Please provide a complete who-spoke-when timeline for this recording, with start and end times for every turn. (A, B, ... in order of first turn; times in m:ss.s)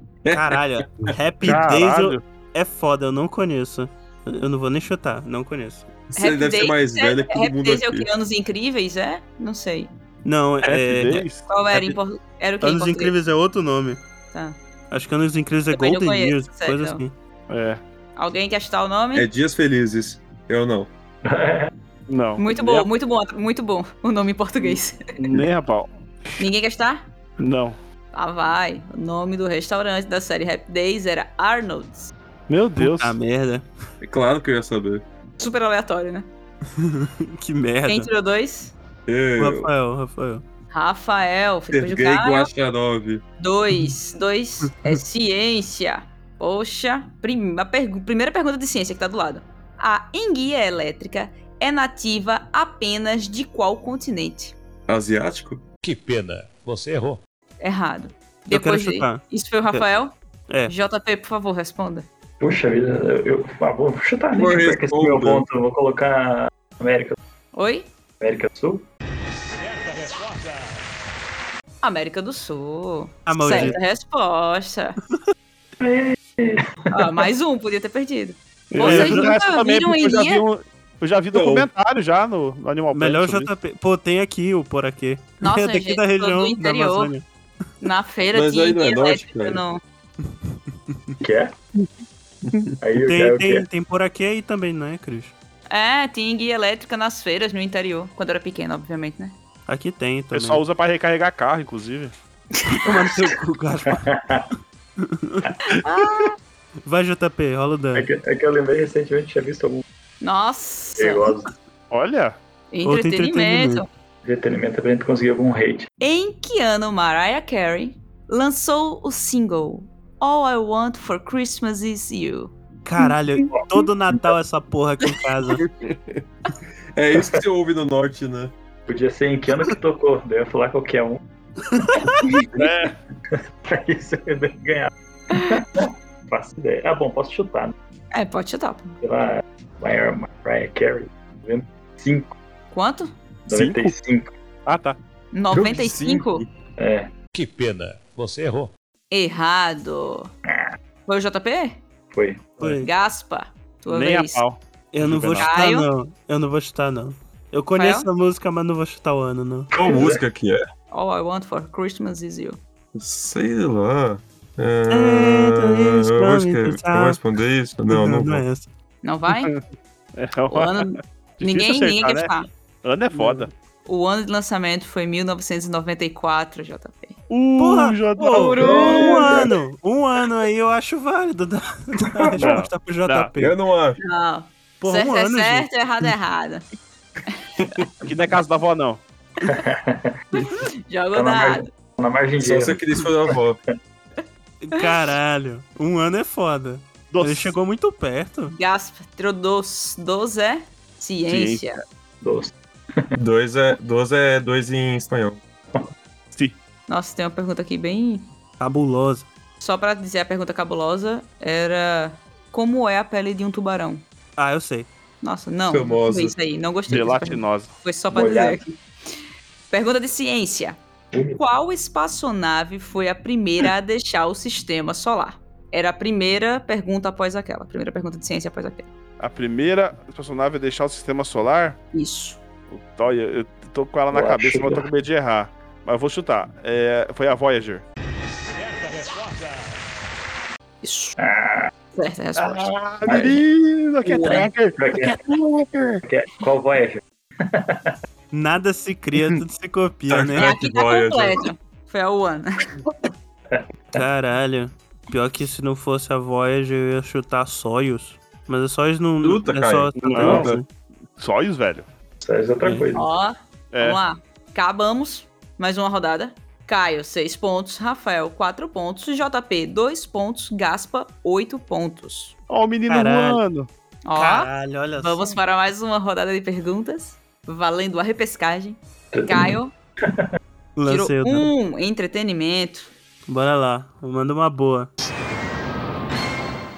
0:00.2-0:00.6 A
0:00.3-0:05.9 B
0:01.4-0:02.2 C
0:06.1-0:08.1 A
0:06.1-0:09.9 D
0:10.2-0:12.0 B
0:10.6-0:11.4 C
0:11.5-0:13.1 D
0:12.6-0:14.0 B
0:14.3-0:14.6 D
0:14.9-0:17.1 B
0:15.7-0:17.0 D
0:17.5-0:17.8 C
0:18.2-0:19.3 D
0:19.1-0:20.9 A
0:21.2-0:21.7 E
0:22.1-0:22.9 C
0:22.4-0:25.2 D
0:24.6-0:26.4 C
0:26.4-0:27.0 D
0:27.4-0:27.8 C
0:28.1-0:32.1 D
0:32.5-0:33.2 C
0:32.8-0:33.6 B
0:34.0-0:35.0 A
0:35.4-0:36.3 D
0:36.8-0:38.1 B
0:37.8-0:38.7 D
0:39.1-0:39.7 A
0:39.4-0:40.4 B
0:40.7-0:42.5 D
0:41.7-0:43.2 A
0:43.4-0:54.6 D
0:44.7-0:45.0 B
0:54.9-0:55.6 A
0:55.8-0:57.2 F
0:57.6-1:00.1 D
0:58.5-0:59.8 B
1:00.7-1:02.1 D
1:02.4-1:07.2 E
1:04.3-1:05.4 A
1:07.5-1:07.9 D
1:08.2-1:08.9 E
1:11.8-1:15.0 D
1:13.3-1:13.8 B
1:15.8-1:17.3 E
1:16.9-1:20.4 D
1:18.7-1:23.5 C
1:18.8-1:19.3 B
1:21.3-1:21.7 A
1:22.9-1:27.2 B
1:25.4-1:27.1 D
1:27.8-1:29.8 D
1:28.3-1:29.6 A
1:31.2-1:31.5 E
1:32.8-1:33.6 E
1:33.0-1:35.3 B
1:35.7-1:39.4 D
1:39.7-1:40.6 B
1:40.3-1:42.1 C
1:42.6-1:44.1 B
1:43.9-1:44.4 E
1:45.0-1:45.5 B
1:45.7-1:46.4 D
1:46.8-1:48.1 B
1:47.9-1:49.8 E
1:50.2-1:51.3 D
1:51.0-1:51.5 E
1:51.9-1:52.4 C
1:52.7-1:53.9 D
1:52.8-1:53.8 B
1:54.2-1:55.9 E
1:56.0-2:02.5 D
2:02.8-2:05.6 B
2:05.6-2:06.2 A
2:06.9-2:08.5 A
2:08.9-2:11.2 E
2:11.8-2:12.2 B
2:12.6-2:12.9 C
2:13.3-2:17.7 E
2:18.1-2:19.0 D
2:19.0-2:22.3 E
2:22.7-2:23.1 D
2:23.5-2:24.3 E
2:23.5-2:23.9 C
2:24.6-2:25.0 C
2:25.3-2:26.4 D
2:25.5-2:26.4 A
2:26.8-2:27.1 E
2:27.3-2:28.7 F
2:29.1-2:30.3 D
2:31.1-2:31.8 D
2:32.1-2:32.5 E
2:32.6-2:32.9 B
2:32.7-2:34.4 D
2:33.9-2:35.5 C
2:34.9-2:39.7 B
2:35.4-2:35.9 D
2:37.8-2:38.1 D
2:39.7-2:40.2 E
2:39.7-2:40.6 A
2:40.9-2:42.6 D
2:42.9-2:48.4 A
2:44.9-2:47.2 B
2:47.9-2:48.7 B
2:49.0-2:49.5 D
2:49.3-2:49.6 C
2:50.2-2:53.5 C
2:50.5-2:52.5 D
2:53.1-2:53.5 B
2:53.8-2:57.2 D
2:57.3-2:59.2 C
2:57.6-3:03.6 B
2:58.3-2:59.4 D
2:58.6-2:59.4 E
3:02.2-3:02.5 E
3:02.4-3:03.3 C
3:03.4-3:04.0 A
3:04.0-3:06.6 D
3:04.8-3:05.7 B
3:08.0-3:09.0 C
3:09.4-3:10.1 E
3:10.4-3:11.7 D
3:11.1-3:13.4 E
3:12.4-3:13.6 A
3:14.6-3:18.5 B
3:17.1-3:17.5 C
3:18.5-3:21.8 D
3:21.3-3:21.6 C
3:22.2-3:23.1 E
3:23.2-3:25.4 A
3:26.9-3:28.3 D
3:28.6-3:29.3 B
3:29.6-3:34.0 D
3:34.4-3:34.9 B
3:35.2-3:38.7 D
3:35.7-3:36.3 A
3:36.9-3:37.7 C
3:38.1-3:38.6 E
3:39.7-3:40.8 D
3:41.1-3:41.4 E
3:41.4-3:48.9 D
3:49.2-3:51.8 C
3:51.9-3:52.4 D
3:52.7-3:57.8 C
3:54.1-3:54.9 E
4:00.8-4:01.2 D
4:01.2-4:01.7 E
4:01.9-4:03.3 D
4:02.4-4:06.0 C
4:03.0-4:03.4 E
4:04.2-4:05.2 E
4:04.2-4:04.5 D
4:06.0-4:07.9 E
4:08.3-4:10.5 B
4:10.1-4:11.4 A
4:10.4-4:12.7 D
4:13.5-4:14.0 E
4:13.9-4:20.6 B
4:19.2-4:20.6 A
4:20.0-4:20.5 C
4:21.2-4:21.8 C
4:22.2-4:23.1 E
4:22.6-4:22.9 B
4:22.9-4:32.4 D
4:23.7-4:24.0 C
4:32.5-4:33.7 C
4:32.9-4:33.4 B
4:34.0-4:39.7 D
4:34.1-4:35.3 B
4:39.1-4:40.3 E
4:40.8-4:41.5 B
4:40.8-4:42.9 D
4:43.3-4:44.9 B